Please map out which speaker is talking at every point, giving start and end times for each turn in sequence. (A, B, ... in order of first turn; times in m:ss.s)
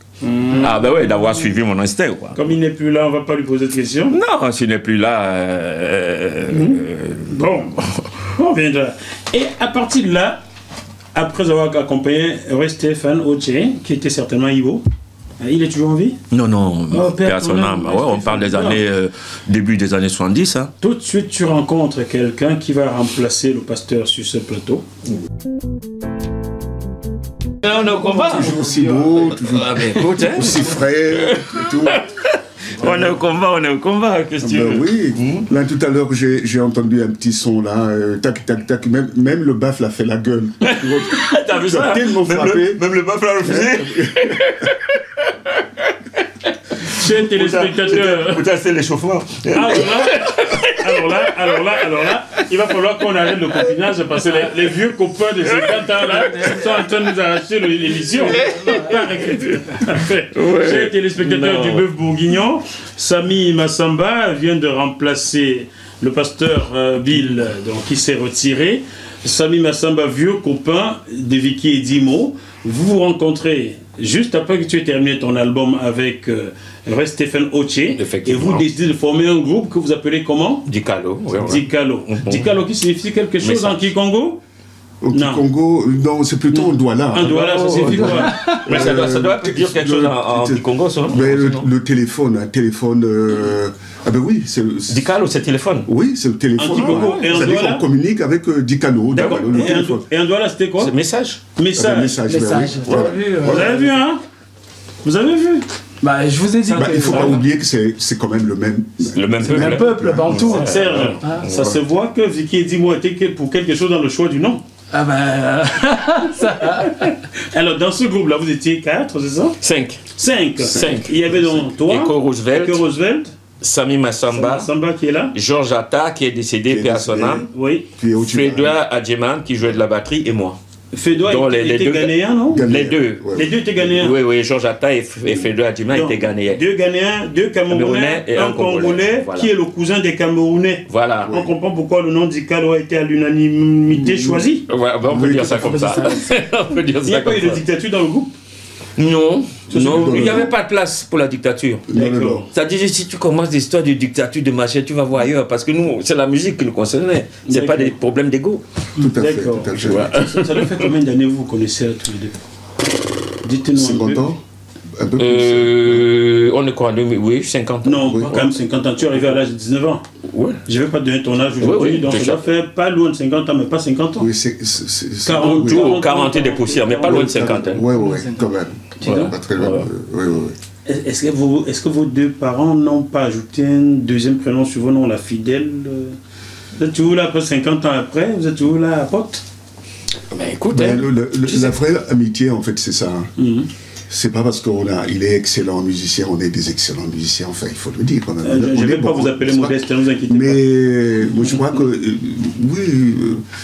0:00.2-0:00.8 A
0:00.6-0:02.4 B
0:02.4-0:04.2 A
0:04.1-0:08.1 B
0:06.5-0:10.4 A
0:11.2-0:14.8 A
0:15.4-0:16.2 A
0:16.3-0:20.7 B
0:16.9-0:18.8 A
0:20.8-0:24.8 A
0:27.6-0:35.5 B
0:28.2-0:32.0 C
0:28.7-0:29.0 A
0:32.8-0:33.2 C
0:34.4-0:42.8 C
0:40.6-0:51.8 B
0:43.4-0:44.6 C
0:46.8-0:48.4 A
0:49.5-1:20.7 A
0:55.5-0:56.5 B
0:58.2-0:59.0 D
0:58.4-0:58.8 B
1:00.3-1:01.9 B
1:18.0-1:18.7 B
1:20.7-1:22.5 B
1:21.4-1:24.4 A
1:23.4-1:23.9 B
1:25.0-1:35.1 C
1:25.1-1:25.4 A
1:27.1-1:28.3 A
1:27.2-1:31.7 B
1:28.3-1:28.6 D
1:34.9-1:35.9 B
1:35.9-1:40.0 C
1:36.6-1:37.8 A
1:36.7-1:37.4 B
1:39.1-1:40.9 A
1:40.8-1:41.4 B
1:41.6-1:42.2 A
1:41.8-1:43.7 C
1:42.3-1:44.0 D
1:43.3-1:44.2 A
1:45.0-1:45.7 A
1:46.0-1:47.5 D
1:46.7-1:50.7 C
1:47.1-1:47.4 A
1:49.0-1:51.7 B
1:49.4-1:51.5 D
1:50.4-1:54.6 A
1:54.9-1:57.2 D
1:57.4-1:59.6 A
1:59.6-2:00.0 B
2:00.2-2:03.3 A
2:00.7-2:02.8 B
2:00.7-2:01.5 C
2:03.6-2:04.7 B
2:04.3-2:05.3 A
2:05.3-2:07.4 B
2:06.7-2:08.8 C
2:07.5-2:07.9 A
2:08.2-2:10.6 B
2:10.9-2:12.7 A
2:11.2-2:13.2 B
2:12.5-2:13.6 C
2:13.3-2:14.2 A
2:13.8-2:16.6 B
2:15.9-2:24.7 A
2:17.7-2:19.5 B
2:20.9-2:21.4 B
2:21.3-2:21.5 C
2:24.2-2:27.6 B
2:25.1-2:25.8 C
2:25.1-2:26.3 D
2:27.1-2:28.3 A
2:29.0-2:31.9 B
2:29.7-2:30.5 C
2:29.7-2:30.5 A
2:31.9-2:32.5 C
2:31.9-2:32.5 A
2:32.5-2:38.6 B
2:37.5-2:38.0 A
2:39.0-2:40.2 C
2:39.2-2:42.4 A
2:39.7-2:40.9 B
2:43.4-2:44.3 A
2:43.8-2:44.4 C
2:44.9-2:46.0 C
2:45.2-2:48.4 B
2:47.8-2:50.0 A
2:48.0-2:48.5 C
2:50.3-2:50.6 B
2:50.7-2:54.3 A
2:51.6-2:52.4 B
2:54.2-2:56.0 C
2:55.2-2:57.6 A
2:55.4-2:57.9 B
2:57.0-3:00.6 C
2:57.9-2:58.4 D
2:59.0-2:59.3 A
2:59.1-2:59.9 B
3:00.9-3:06.2 A
3:06.8-3:09.4 A
3:10.3-3:11.8 B
3:10.7-3:13.3 C
3:13.4-3:13.7 A
3:14.1-3:23.4 C
3:18.4-3:20.7 A